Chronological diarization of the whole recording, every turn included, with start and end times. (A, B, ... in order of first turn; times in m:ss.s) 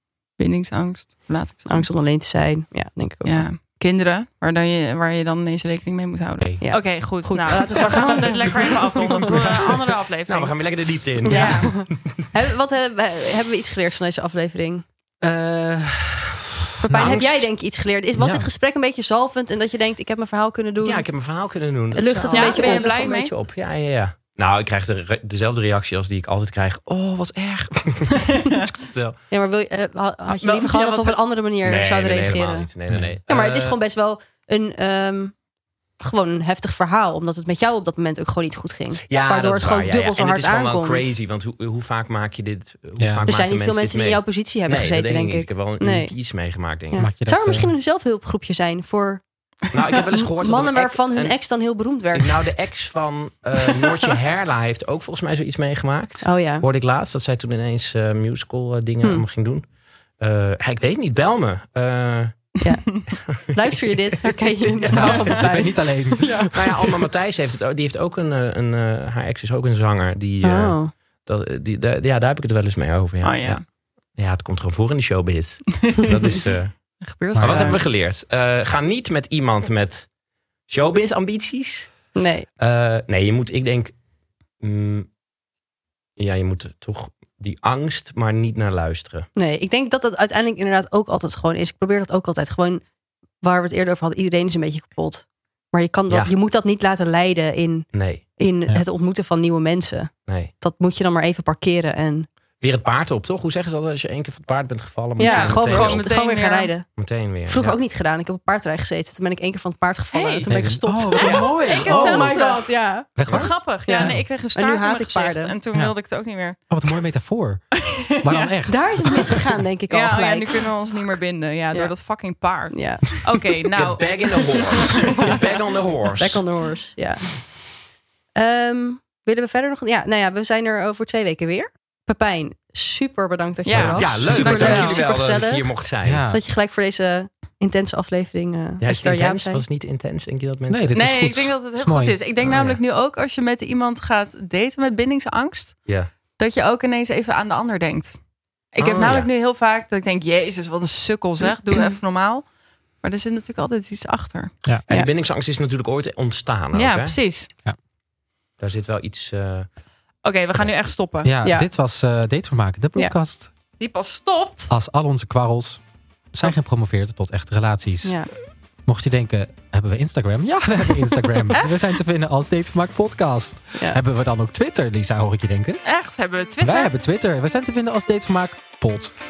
0:00.4-0:01.9 A
0:01.7-0:03.4 B
0:03.2-0:10.5 A
0:06.6-0:09.5 B
0:10.3-0:12.3 C
0:11.2-0:11.8 A
0:11.2-0:14.8 B
0:15.2-0:17.5 D
0:16.8-0:21.0 B
0:16.9-0:17.3 C
0:18.2-0:18.5 D
0:20.8-0:29.2 C
0:21.9-0:23.2 B
0:22.2-0:23.3 A
0:28.3-0:28.6 A
0:29.3-0:32.7 B
0:30.3-0:31.2 A
0:31.6-0:33.8 C
0:32.9-0:33.1 D
0:33.3-0:35.4 B
0:36.0-0:41.1 B
0:39.0-0:47.1 C
0:43.0-0:43.3 D
0:43.2-0:46.1 B
0:46.9-0:49.2 B
0:47.0-0:47.7 D
0:49.7-0:51.4 C
0:49.9-0:52.5 B
0:52.1-0:59.7 C
0:56.2-0:56.6 B
1:00.2-1:02.5 C
1:02.6-1:06.5 B
1:03.7-1:04.1 C
1:04.8-1:05.5 A
1:04.9-1:06.5 D
1:06.2-1:06.5 A
1:06.5-1:13.6 C
1:10.4-1:10.9 B
1:13.2-1:13.6 A
1:14.1-1:20.1 C
1:15.9-1:16.2 A
1:17.0-1:17.8 A
1:17.3-1:17.8 D
1:20.7-1:23.9 C
1:22.1-1:22.5 B
1:24.6-1:25.1 C
1:26.2-1:29.3 C
1:29.4-1:32.8 B
1:33.4-1:42.3 B
1:36.1-1:36.3 C
1:37.9-1:38.2 C
1:40.3-1:40.5 C
1:42.6-1:46.0 C
1:45.2-1:46.9 B
1:45.2-1:46.7 A
1:47.0-1:47.8 C
1:47.4-1:53.1 B
1:50.1-1:50.4 A
1:50.2-1:50.6 C
1:50.5-1:52.6 D
1:51.1-1:52.6 A
1:51.2-1:51.7 C
1:53.1-1:54.2 D
1:53.2-1:56.6 A
1:53.8-1:55.5 B
1:56.7-1:59.5 D
1:57.8-1:58.5 A
1:58.7-2:00.7 B
1:59.0-1:59.3 A
1:59.9-2:05.4 A
2:02.7-2:03.6 B
2:03.7-2:06.4 C
2:06.2-2:07.6 B
2:08.4-2:15.7 B
2:13.6-2:15.0 A
2:13.7-2:16.2 C
2:16.0-2:16.4 D
2:16.3-2:19.6 B
2:18.8-2:21.0 C
2:20.7-2:22.2 D
2:20.9-2:25.8 A
2:22.4-2:22.8 C
2:26.4-2:28.2 A
2:28.7-2:32.4 A
2:28.8-2:29.3 C
2:33.0-2:34.5 A
2:34.9-2:37.2 C
2:36.7-2:37.5 A
2:38.6-2:39.7 C
2:40.2-2:41.3 A
2:41.2-2:43.5 D
2:41.4-2:41.7 B
2:43.8-2:44.7 A
2:44.7-2:45.8 D
2:46.3-2:48.2 D
2:48.0-2:48.3 B
2:48.8-2:55.8 D
2:55.8-2:56.9 A
2:56.6-2:59.1 D